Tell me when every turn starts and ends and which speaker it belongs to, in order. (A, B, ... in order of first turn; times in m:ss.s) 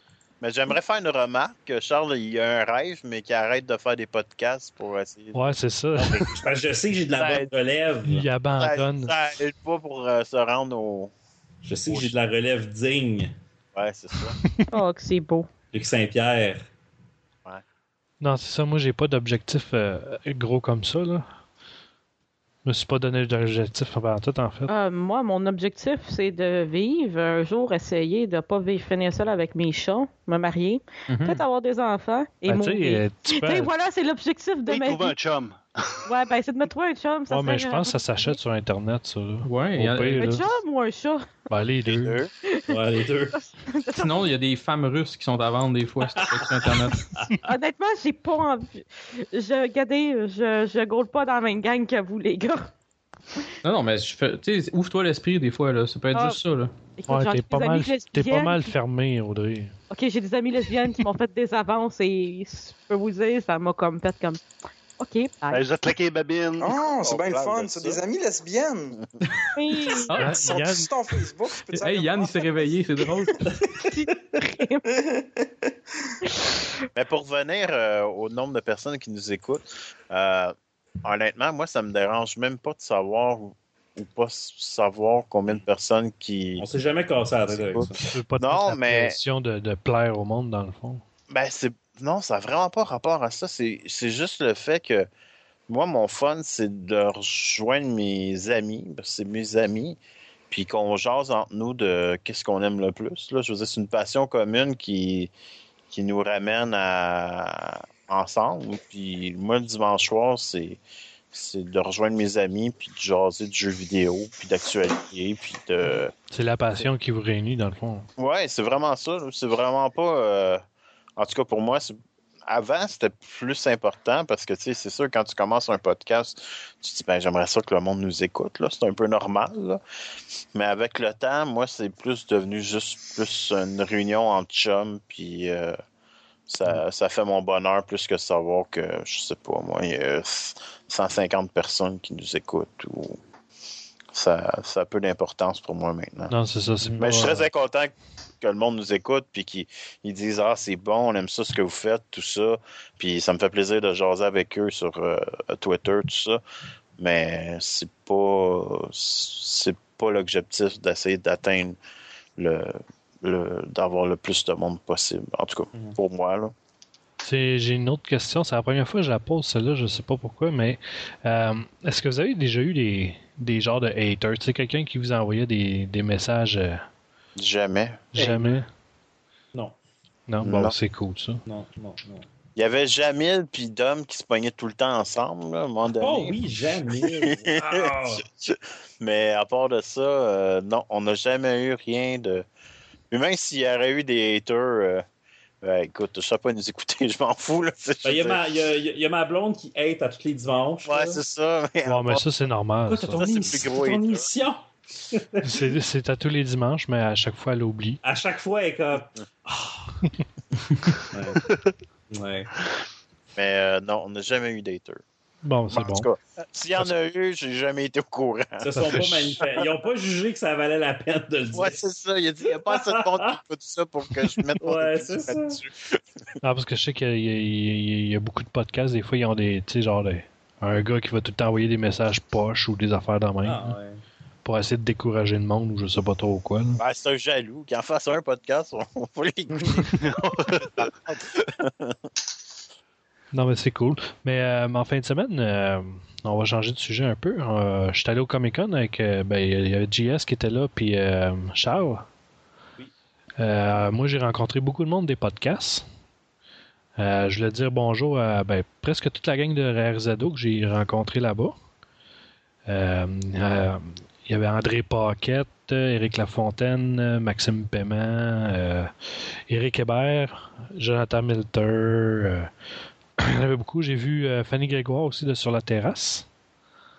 0:00.4-0:06.2 A
0:05.3-0:06.3 B
0:06.0-0:08.2 C
0:07.2-0:07.5 A
0:08.1-0:09.1 B
0:08.6-0:11.1 A
0:11.6-0:13.3 C
0:11.9-0:12.1 A
0:13.7-0:14.4 A
0:14.7-0:15.5 D
0:15.7-0:16.6 C
0:18.2-0:21.3 B
0:22.6-0:24.7 B
0:24.7-0:35.1 D
0:31.1-0:31.4 E
0:32.5-0:33.7 B
0:34.7-0:36.1 F
0:36.0-0:38.4 D
0:37.3-0:40.4 B
0:39.4-0:40.4 E
0:40.2-0:41.3 D
0:41.5-0:42.2 B
0:41.9-0:42.3 A
0:42.4-0:42.8 D
0:42.7-0:43.4 C
0:43.3-0:44.2 D
0:43.9-0:47.2 E
0:46.2-0:47.3 C
0:47.4-0:52.7 D
0:53.6-0:56.7 E
0:56.1-0:56.4 D
0:57.0-0:58.7 D
0:57.1-0:59.7 B
0:59.9-1:04.4 D
1:05.0-1:05.6 D
1:05.5-1:06.8 F
1:06.6-1:09.0 G
1:07.0-1:08.0 A
1:09.5-1:10.1 D
1:09.9-1:10.4 E
1:10.2-1:10.9 B
1:10.3-1:13.4 G
1:11.7-1:13.4 E
1:13.8-1:14.8 D
1:14.9-1:15.4 G
1:16.2-1:16.6 D
1:16.9-1:26.6 A
1:26.6-1:28.0 C
1:27.5-1:29.2 A
1:28.1-1:31.0 B
1:31.3-1:35.1 A
1:35.7-1:40.0 A
1:40.5-1:45.3 A
1:45.9-1:50.8 A
1:51.3-1:56.1 A
1:56.3-1:58.1 B
1:58.2-2:00.6 A
2:01.2-2:01.9 A
2:02.5-2:09.8 A
2:10.5-2:15.8 A
2:16.5-2:23.2 A
2:24.1-2:26.3 A
2:26.3-2:27.4 B
2:27.0-2:36.4 A
2:37.0-2:41.8 A
2:42.4-2:46.5 A
2:47.2-2:56.8 B
2:57.4-2:58.0 A
2:58.1-2:58.7 B
2:58.2-2:58.6 F
3:00.3-3:01.4 B
3:00.4-3:00.8 A
3:01.5-3:02.2 C
3:02.5-3:12.4 A
3:06.0-3:08.2 C
3:13.1-3:15.0 A
3:15.6-3:18.4 A
3:18.0-3:21.2 C
3:20.8-3:22.2 A
3:21.8-3:23.6 B
3:22.9-3:25.6 C
3:23.1-3:24.2 A
3:25.4-3:28.0 B
3:28.0-3:29.9 C
3:31.1-3:31.5 C
3:32.1-3:32.5 C
3:33.3-3:35.0 A
3:35.4-3:36.1 B
3:35.7-3:38.7 A
3:38.6-3:41.8 C
3:38.7-3:39.4 B
3:41.5-3:46.0 A
3:42.7-3:43.3 C
3:44.6-3:45.6 C
3:46.4-3:53.8 B
3:53.4-3:54.0 C
3:54.4-3:56.8 B
3:56.8-4:00.0 A
3:59.9-4:00.8 F
4:00.8-4:02.0 A
4:03.3-4:12.0 B
4:13.4-4:15.8 B
4:17.0-4:21.5 B
4:22.7-4:28.9 B
4:29.5-4:32.5 B
4:33.2-4:36.2 B